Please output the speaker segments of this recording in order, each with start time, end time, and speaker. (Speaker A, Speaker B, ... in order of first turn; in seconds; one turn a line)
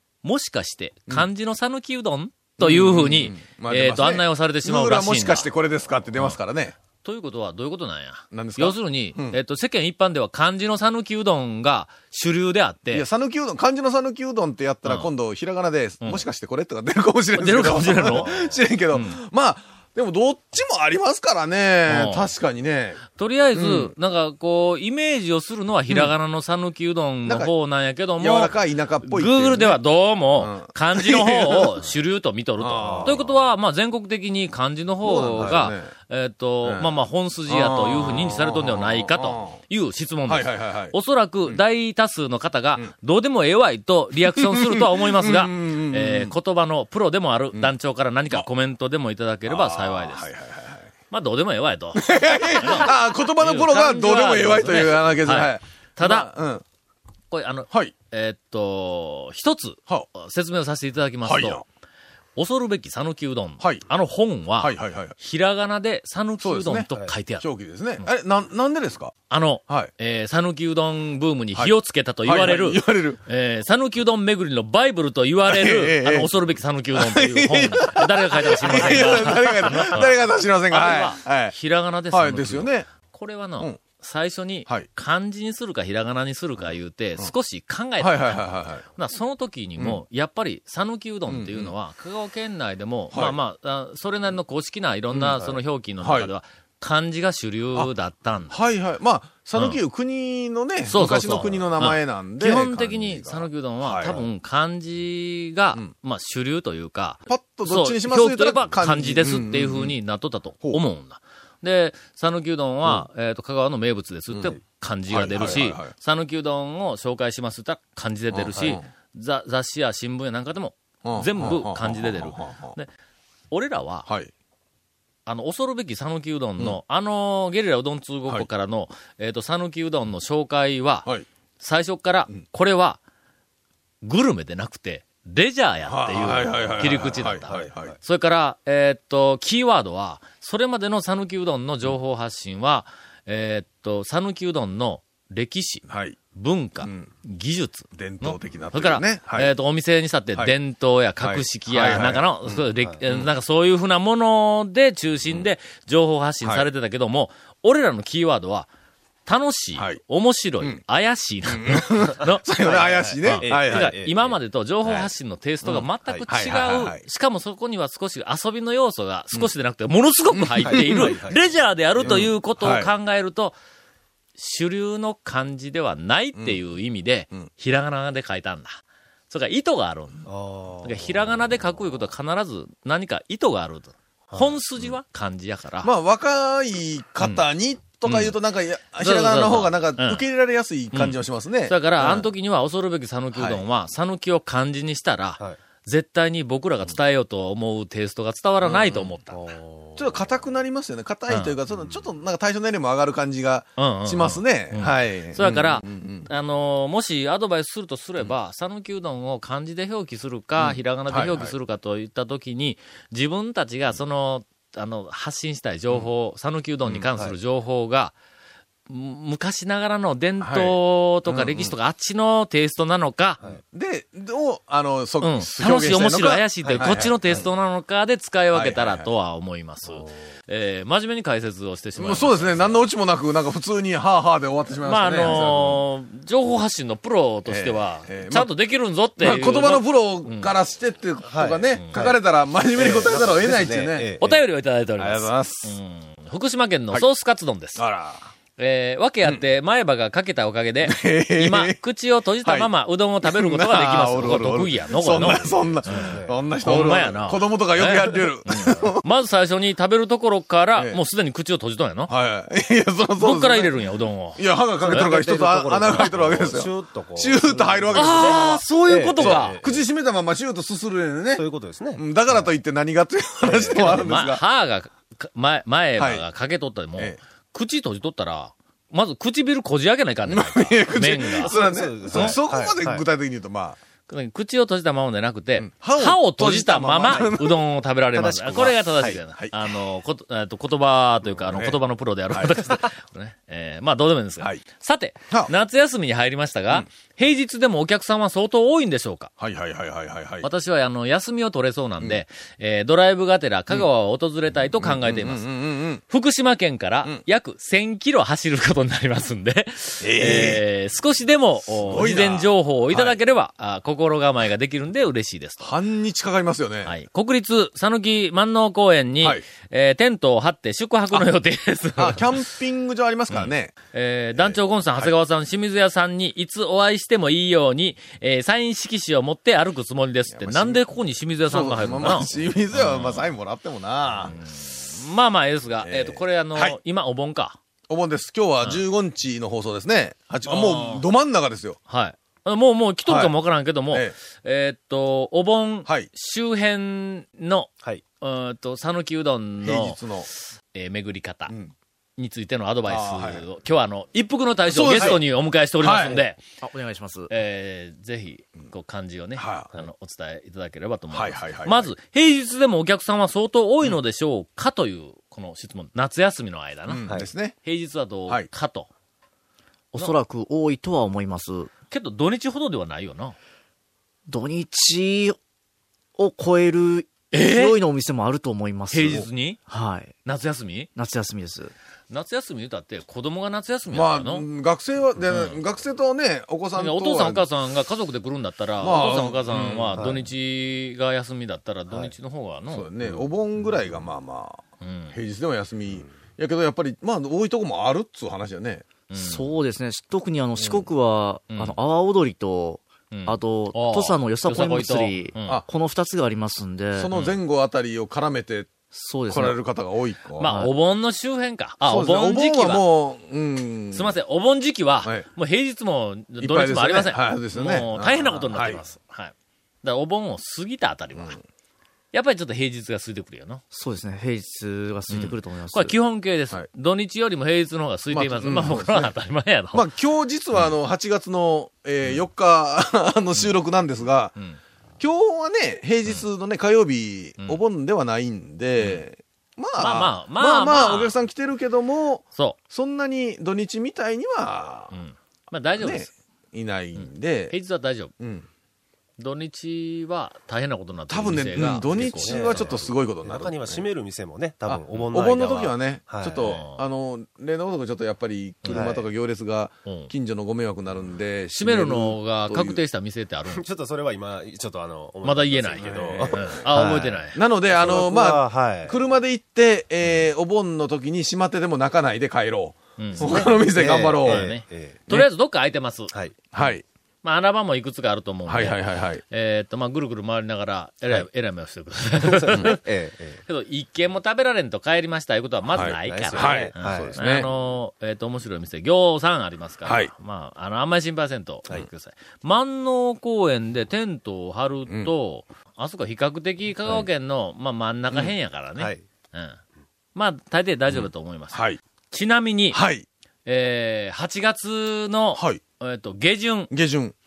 Speaker A: 0.2-5.5
Speaker B: 2.6-6.8
Speaker A: 7.0-13.1
Speaker B: 8.3-9.4
Speaker B: 12.9-23.0
Speaker A: 14.8-15.1
Speaker A: 17.4-18.3
Speaker C: 18.1-18.5
Speaker A: 18.9-19.2
Speaker A: 21.9-22.3
Speaker A: 23.1-50.3
Speaker B: 23.5-23.9
Speaker B: 27.2-27.5
Speaker B: 28.2-29.8
Speaker B: 30.4-31.8
Speaker B: 32.6-33.3
Speaker C: 32.8-33.1
Speaker B: 35.0-35.9
Speaker B: 36.6-36.9
Speaker B: 37.5-39.6
Speaker B: 40.3-41.0
Speaker B: 44.2-46.3
Speaker B: 49.5-50.9
Speaker A: 51.1-56.3
Speaker B: 52.0-56.6
Speaker A: 57.3-61.6
Speaker B: 61.2-61.6
Speaker A: 62.4-67.5
Speaker B: 64.6-65.2
Speaker B: 66.4-69.2
Speaker A: 69.3-80.2
Speaker B: 72.2-73.2
Speaker B: 75.5-76.3
Speaker B: 77.0-81.5
Speaker A: 80.7-98.6
Speaker B: 82.1-82.9
Speaker B: 88.0-88.8
Speaker B: 91.3-91.7
Speaker B: 93.1-93.4
Speaker B: 95.1-95.4
Speaker B: 96.0-96.3
Speaker B: 98.5-104.2
Speaker A: 100.9-122.9
Speaker B: 107.3-110.0
Speaker B: 115.1-115.9
Speaker B: 118.3-118.9
Speaker B: 121.0-122.8
Speaker A: 123.5-124.1
Speaker B: 124.1-124.3
Speaker A: 125.3-131.1
Speaker A: 131.6-133.0
Speaker A: 134.0-158.7
Speaker B: 135.9-137.9
Speaker C: 137.5-137.9
Speaker B: 145.9-146.2
Speaker B: 146.8-147.1
Speaker B: 147.9-149.5
Speaker B: 151.2-153.3
Speaker A: 159.3-162.5
Speaker B: 161.5-163.9
Speaker C: 162.6-164.3
Speaker A: 163.2-173.6
Speaker B: 164.8-165.1
Speaker B: 165.6-167.0
Speaker B: 170.3-171.2
Speaker C: 170.6-171.4
Speaker C: 172.0-172.2
Speaker B: 172.0-172.9
Speaker A: 174.4-180.3
Speaker C: 180.3-181.2
Speaker A: 180.8-185.9
Speaker C: 184.3-184.5
Speaker B: 185.8-192.3
Speaker A: 188.1-188.3
Speaker A: 189.0-190.2
Speaker A: 190.9-199.4
Speaker B: 193.3-193.6
Speaker B: 198.6-199.1
Speaker C: 199.3-200.2
Speaker B: 200.0-206.3
Speaker A: 201.3-201.6
Speaker A: 203.8-218.2
Speaker B: 210.6-211.5
Speaker A: 218.9-223.4
Speaker B: 220.4-221.7
Speaker B: 223.7-227.2
Speaker A: 225.2-232.8
Speaker C: 226.7-227.4
Speaker B: 228.5-229.1
Speaker C: 229.9-230.1
Speaker B: 232.0-235.8
Speaker A: 234.8-240.5
Speaker B: 237.5-238.5
Speaker B: 239.2-244.1
Speaker C: 241.3-242.2
Speaker A: 241.8-242.0
Speaker C: 242.7-244.4
Speaker A: 244.2-247.8
Speaker B: 245.0-245.8
Speaker B: 247.8-248.3
Speaker A: 248.6-262.1
Speaker B: 250.8-251.8
Speaker B: 252.4-252.7
Speaker B: 253.2-259.0
Speaker C: 255.1-256.4
Speaker B: 262.1-263.7
Speaker A: 263.2-265.1
Speaker B: 264.4-268.6
Speaker C: 264.8-269.8
Speaker A: 267.9-269.6
Speaker B: 269.1-271.4
Speaker C: 271.4-272.5
Speaker B: 272.0-274.4
Speaker C: 273.4-274.0
Speaker A: 273.8-281.5
Speaker B: 276.0-276.2
Speaker B: 280.3-283.8
Speaker C: 281.4-283.0
Speaker A: 282.1-282.4
Speaker A: 284.1-299.3
Speaker B: 285.6-287.6
Speaker C: 288.1-289.2
Speaker B: 289.4-289.7
Speaker B: 291.3-291.8
Speaker B: 292.3-292.6
Speaker B: 299.4-300.5
Speaker A: 300.4-305.5
Speaker B: 304.8-306.0
Speaker A: 306.1-315.7
Speaker B: 310.0-310.6
Speaker B: 311.8-313.2
Speaker B: 315.6-316.9
Speaker A: 316.9-322.4
Speaker B: 322.0-323.8
Speaker A: 323.3-333.3
Speaker B: 324.4-325.1
Speaker B: 330.3-330.8
Speaker B: 331.5-334.4
Speaker A: 334.3-337.6
Speaker B: 335.8-336.8
Speaker B: 337.9-341.8
Speaker A: 340.5-341.1
Speaker A: 341.9-350.0
Speaker B: 343.1-343.3
Speaker B: 349.6-350.3
Speaker A: 350.7-351.5
Speaker B: 351.5-351.7
Speaker A: 352.2-356.4
Speaker B: 352.9-353.4
Speaker B: 354.7-355.2
Speaker B: 355.8-356.2
Speaker D: 356.6-357.3
Speaker A: 357.3-367.1
Speaker B: 359.4-359.7
Speaker B: 361.1-361.9
Speaker B: 366.9-367.6
Speaker A: 367.6-368.9
Speaker D: 369.9-371.7
Speaker A: 371.9-373.4
Speaker D: 374.3-375.4
Speaker D: 376.2-380.1
Speaker A: 377.3-377.8
Speaker A: 378.9-379.6
Speaker A: 380.2-380.9
Speaker D: 380.9-381.7
Speaker A: 382.1-384.5
Speaker B: 383.9-387.4
Speaker A: 385.3-385.6
Speaker A: 386.8-392.9
Speaker B: 388.8-390.1
Speaker B: 392.7-398.9
Speaker A: 394.8-395.2
Speaker A: 399.1-399.5
Speaker D: 399.2-407.1
Speaker B: 400.6-400.9
Speaker A: 401.5-401.8
Speaker A: 403.1-405.6
Speaker B: 406.9-408.7
Speaker A: 407.1-407.4
Speaker D: 408.9-409.6
Speaker B: 409.3-410.5
Speaker A: 410.4-412.8
Speaker D: 410.4-410.7
Speaker B: 411.9-414.1
Speaker A: 413.9-421.4
Speaker B: 416.4-418.8
Speaker B: 421.2-421.4
Speaker A: 422.1-423.6
Speaker D: 423.7-425.9
Speaker A: 425.1-429.9
Speaker B: 428.1-429.1
Speaker B: 429.7-434.3
Speaker B: 435.0-444.9
Speaker A: 439.8-441.1
Speaker A: 444.9-446.1
Speaker B: 445.8-447.5
Speaker A: 447.0-448.1
Speaker B: 448.2-448.5
Speaker A: 449.2-452.9
Speaker B: 451.1-453.9
Speaker C: 451.7-456.5
Speaker B: 454.7-462.8
Speaker A: 456.4-456.8
Speaker C: 458.7-459.0
Speaker A: 459.9-460.1
Speaker A: 461.6-463.6
Speaker C: 463.5-467.2
Speaker A: 465.2-467.4
Speaker B: 465.8-466.6
Speaker B: 467.3-474.5
Speaker C: 467.7-469.0
Speaker A: 473.0-473.6
Speaker C: 473.2-475.0
Speaker A: 474.2-476.1
Speaker B: 476.5-476.9
Speaker A: 477.2-482.8
Speaker B: 478.5-479.2
Speaker C: 482.2-483.4
Speaker A: 483.5-499.6
Speaker B: 485.7-487.5
Speaker C: 485.8-487.2
Speaker B: 489.9-490.1
Speaker A: 500.1-502.8
Speaker B: 500.9-501.8
Speaker B: 502.7-503.1
Speaker A: 503.5-506.7
Speaker B: 505.4-505.6
Speaker B: 506.7-507.1